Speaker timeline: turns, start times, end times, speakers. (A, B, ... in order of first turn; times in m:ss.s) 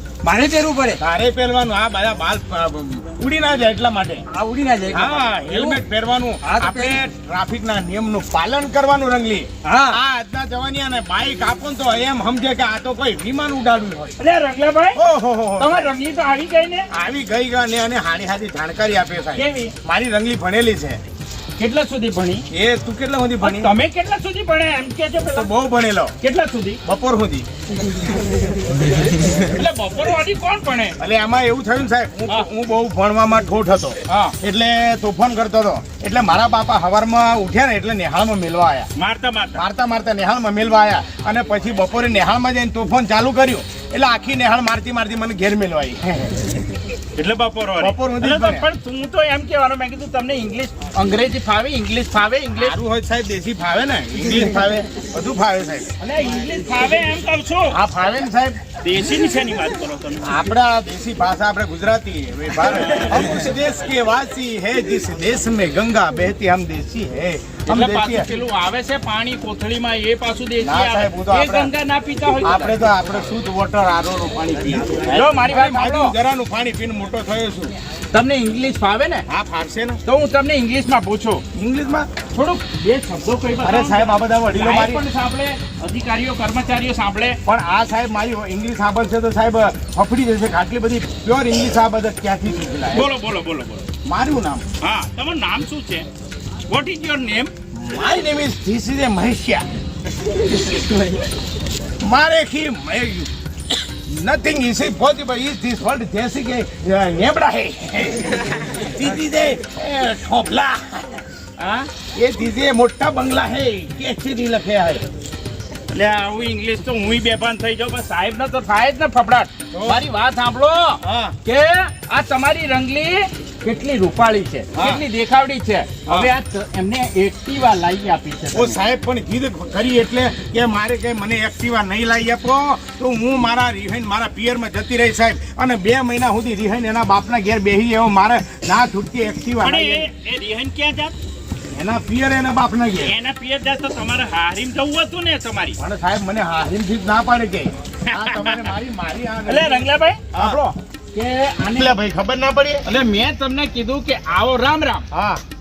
0:00.2-0:01.0 A
0:01.0-0:04.2 B
0:04.3-0:05.8 A
0:04.9-0:14.2 B
0:06.4-0:07.0 A
0:09.6-0:10.0 A
0:14.2-0:15.0 C
0:14.9-0:15.9 B
0:15.6-0:16.9 C
0:16.9-0:21.0 B
0:19.4-0:19.7 C
0:21.6-0:22.5 C
0:22.5-0:23.8 B
0:23.4-0:25.5 C
0:25.3-0:26.2 B
0:26.2-0:26.8 C
0:26.8-0:27.5 B
0:29.4-0:31.0 C
0:31.0-0:38.9 B
0:34.1-0:34.4 C
0:39.0-0:39.6 C
0:39.5-0:46.6 B
0:47.2-0:52.8 C
0:47.8-0:48.7 B
0:52.5-0:55.9 B
0:56.0-0:57.8 C
0:57.7-0:58.6 B
0:58.8-1:00.4 C
1:00.2-1:08.3 B
1:02.8-1:03.3 C
1:07.7-1:12.9 C
1:10.6-1:11.7 B
1:12.4-1:17.8 B
1:15.0-1:16.2 C
1:18.1-1:19.2 C
1:19.3-1:20.0 B
1:20.0-1:21.4 C
1:21.5-1:22.1 B
1:22.3-1:27.4 C
1:23.6-1:25.0 B
1:27.4-1:33.1 B
1:32.9-1:33.9 C
1:34.0-1:34.7 B
1:34.8-1:36.1 C
1:36.7-1:37.5 C
1:37.7-1:39.7 B
1:42.0-1:43.3 B
1:43.9-1:51.2 B
1:51.6-1:51.9 C
1:52.2-1:55.1 B
1:55.9-2:08.8 C
1:59.7-2:00.0 B
2:01.0-2:01.3 B
2:04.8-2:05.0 B
2:06.1-2:06.3 B
2:08.5-2:20.1 B
2:19.6-2:21.2 C
2:21.7-2:23.2 B
2:23.0-2:25.8 C
2:25.8-2:30.6 B
2:28.1-2:28.7 C
2:29.5-2:32.0 C
2:31.7-2:32.9 B
2:32.8-2:35.1 C
2:35.1-2:35.4 B